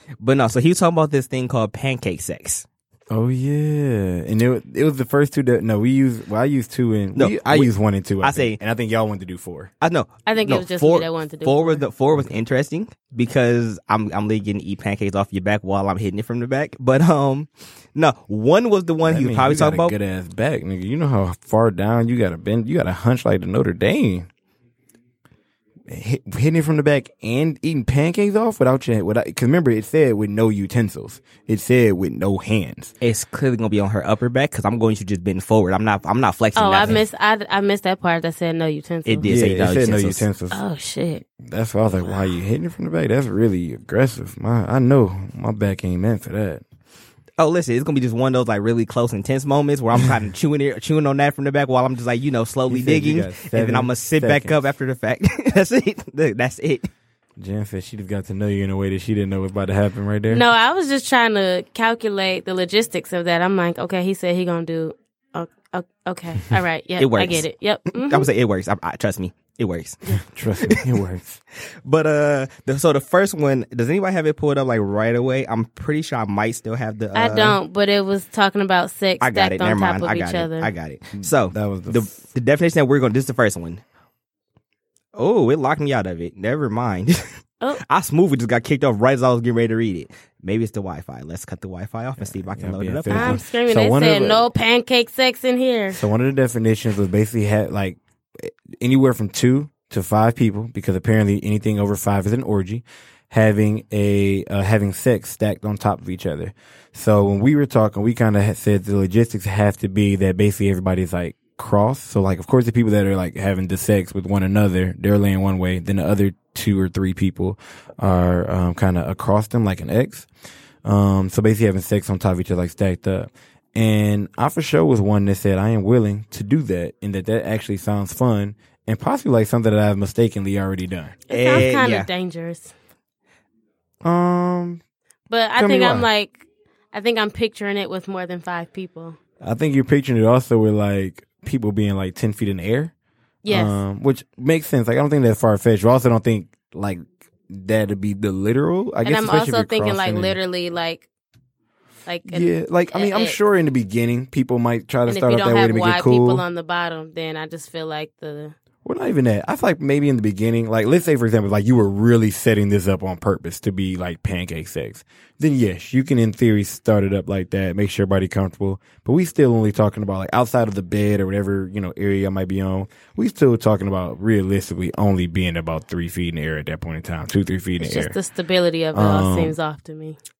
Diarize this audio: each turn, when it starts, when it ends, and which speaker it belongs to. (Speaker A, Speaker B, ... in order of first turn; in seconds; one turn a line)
Speaker A: 0.2-2.6
Speaker B: 3.1-9.7
Speaker A: 7.1-7.7
Speaker A: 8.2-8.6
Speaker A: 9.8-19.9
Speaker C: 10.2-11.8
Speaker B: 19.0-24.3
Speaker B: 25.9-32.9
Speaker A: 33.0-37.0
Speaker C: 36.5-39.3
Speaker A: 39.0-40.2
Speaker B: 39.2-40.6
Speaker C: 40.5-41.2
Speaker B: 41.4-46.6
Speaker A: 47.4-56.9
Speaker B: 52.7-54.6
Speaker B: 57.4-60.4
Speaker C: 60.3-68.3
Speaker A: 67.0-70.0
Speaker B: 70.2-71.4
Speaker A: 70.6-70.9
Speaker A: 71.8-77.6
Speaker C: 77.1-80.7
Speaker A: 79.2-83.8
Speaker B: 81.2-82.0
Speaker A: 85.1-87.2
Speaker A: 87.8-93.4
Speaker B: 92.3-94.5
Speaker C: 93.1-96.0
Speaker B: 95.9-120.3
Speaker B: 120.8-131.2
Speaker C: 131.3-132.7
Speaker A: 131.3-132.1
Speaker B: 134.0-134.8
Speaker C: 135.3-139.2
Speaker B: 135.6-136.1
Speaker B: 139.4-142.9
Speaker C: 143.4-143.8
Speaker B: 143.5-150.4
Speaker C: 149.0-151.0
Speaker C: 152.1-153.4
Speaker B: 152.3-156.4
Speaker C: 155.1-158.5
Speaker B: 158.8-178.2
Speaker C: 177.8-180.2
Speaker B: 178.9-179.6